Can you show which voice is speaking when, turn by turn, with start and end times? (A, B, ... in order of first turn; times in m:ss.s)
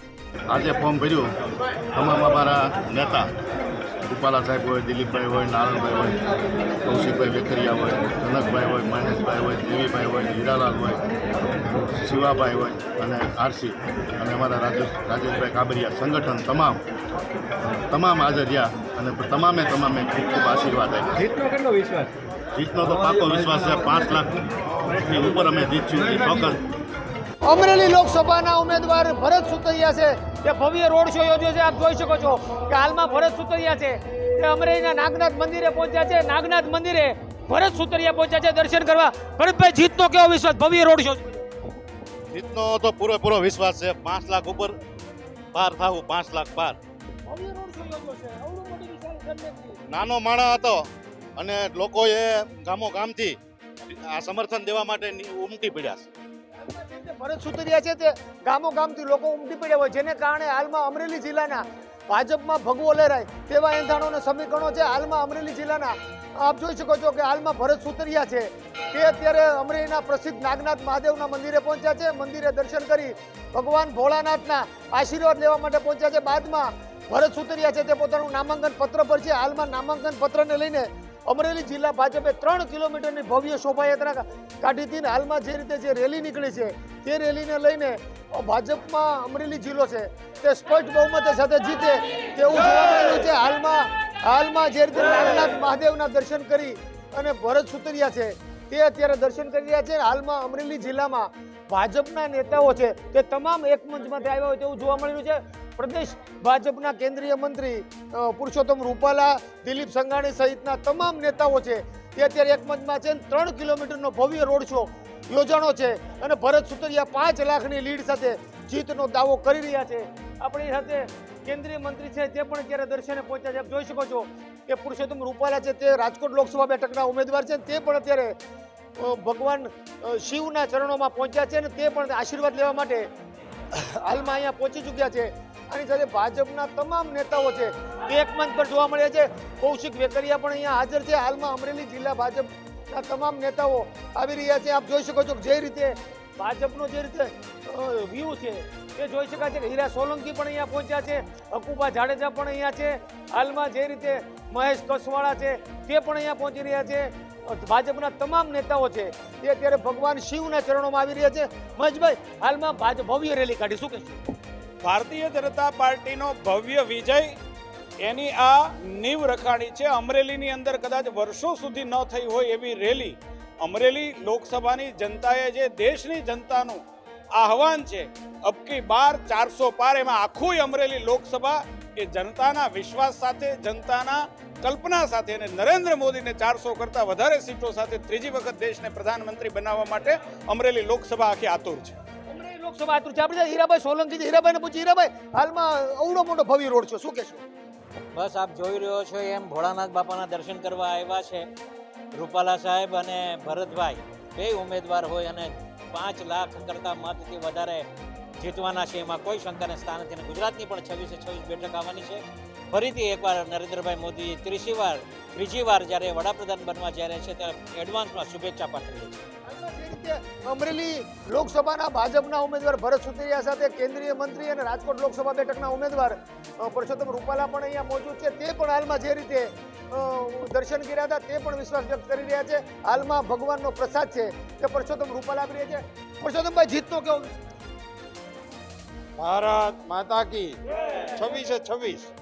0:00.5-0:01.3 A
0:01.9-0:03.3 A
0:04.1-0:06.2 A
0:06.8-0:11.1 A
0:11.9-0:16.8 A
0:17.9-0:21.3 A
0:22.5-0:26.6 A
0:27.4-0:41.4 B
0:42.3-0:44.8 A
0:45.5-0:46.8 A
0:47.3-0:49.8 B
0:49.9-0:56.1 A
0:56.7-2:08.4 B
2:09.0-2:13.1 B
2:13.7-2:44.2 B
2:44.8-2:47.4 C
2:48.0-2:56.8 C
2:57.3-3:12.0 C
3:12.3-3:17.4 B
3:18.1-3:21.5 D
3:22.1-3:39.2 D
3:39.5-3:57.3 B
3:59.2-4:00.6 E
4:01.2-4:02.1 E